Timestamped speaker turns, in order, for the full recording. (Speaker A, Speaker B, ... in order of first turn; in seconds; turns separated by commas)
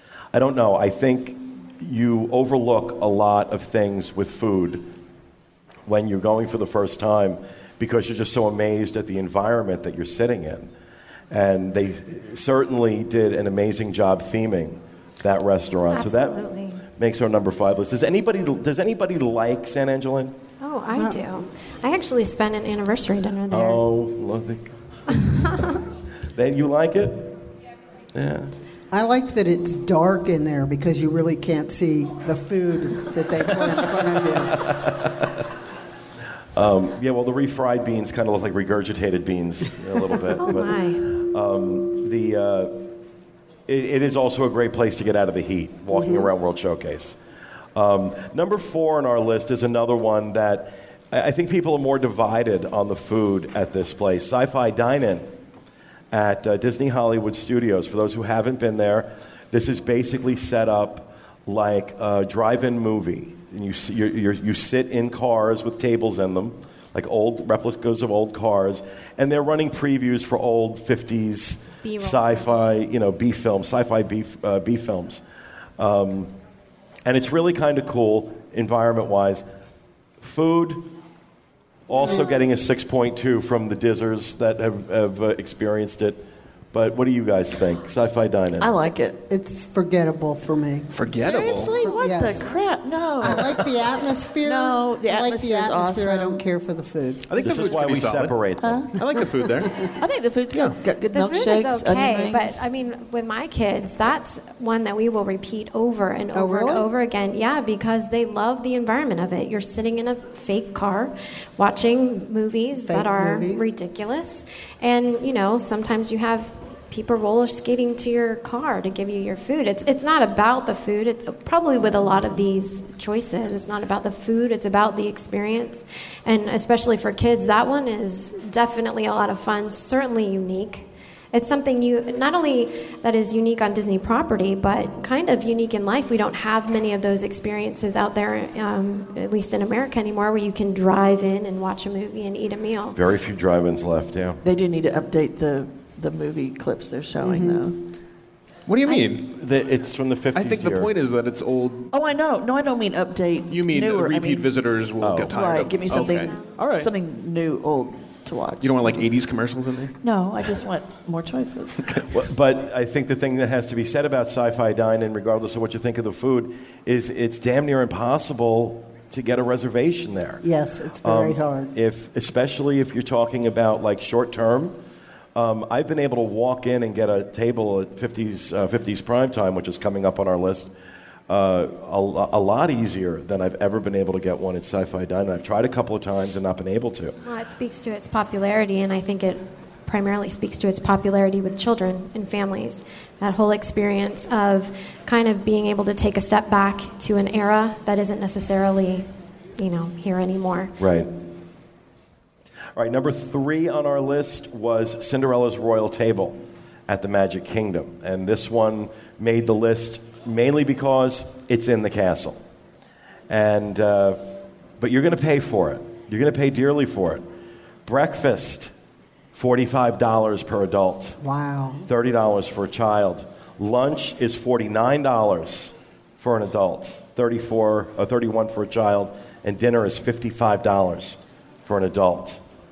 Speaker A: 0.3-4.9, Speaker A: 5.8-10.7, Speaker A: 11.3-16.4, Speaker B: 15.9-16.8, Speaker A: 16.9-20.4, Speaker B: 20.6-23.8, Speaker C: 20.9-21.2, Speaker A: 23.5-25.5, Speaker A: 26.3-27.5, Speaker A: 28.1-28.5, Speaker C: 28.9-34.6, Speaker A: 34.5-35.4, Speaker A: 36.5-42.9, Speaker B: 40.4-41.1, Speaker A: 43.7-47.2, Speaker C: 45.9-46.2, Speaker A: 47.7-55.3, Speaker A: 56.1-75.2, Speaker B: 71.8-72.7, Speaker A: 75.8-76.3, Speaker A: 77.0-79.4, Speaker A: 80.2-80.9, Speaker A: 81.9-86.2, Speaker A: 86.7-88.7, Speaker D: 88.6-89.2, Speaker C: 89.3-90.9, Speaker E: 90.9-91.9, Speaker D: 91.1-93.6, Speaker C: 91.8-92.5, Speaker C: 93.2-97.3, Speaker D: 94.4-96.4, Speaker E: 97.3-98.4, Speaker A: 97.4-98.8, Speaker D: 98.6-99.0, Speaker E: 98.9-99.9, Speaker D: 99.8-102.7, Speaker E: 100.5-100.8, Speaker B: 101.1-143.0, Speaker C: 106.3-106.8, Speaker C: 112.7-113.7, Speaker A: 142.9-144.4, Speaker D: 144.4-147.8, Speaker C: 147.2-147.7, Speaker E: 148.7-149.3, Speaker D: 148.8-149.1, Speaker A: 149.2-150.9, Speaker E: 150.3-151.9, Speaker D: 151.9-154.5, Speaker E: 153.5-156.9, Speaker A: 155.0-155.3, Speaker D: 155.3-159.0, Speaker B: 155.8-156.6, Speaker E: 158.6-160.5, Speaker D: 160.0-162.0, Speaker A: 162.1-170.4, Speaker C: 170.4-171.7, Speaker A: 171.0-174.8, Speaker A: 175.3-180.7, Speaker A: 181.3-187.2, Speaker B: 187.2-200.8, Speaker A: 200.8-201.1, Speaker A: 202.7-212.4, Speaker A: 213.3-217.2, Speaker A: 217.8-218.7, Speaker A: 219.3-221.2, Speaker C: 221.2-221.9, Speaker A: 221.8-232.4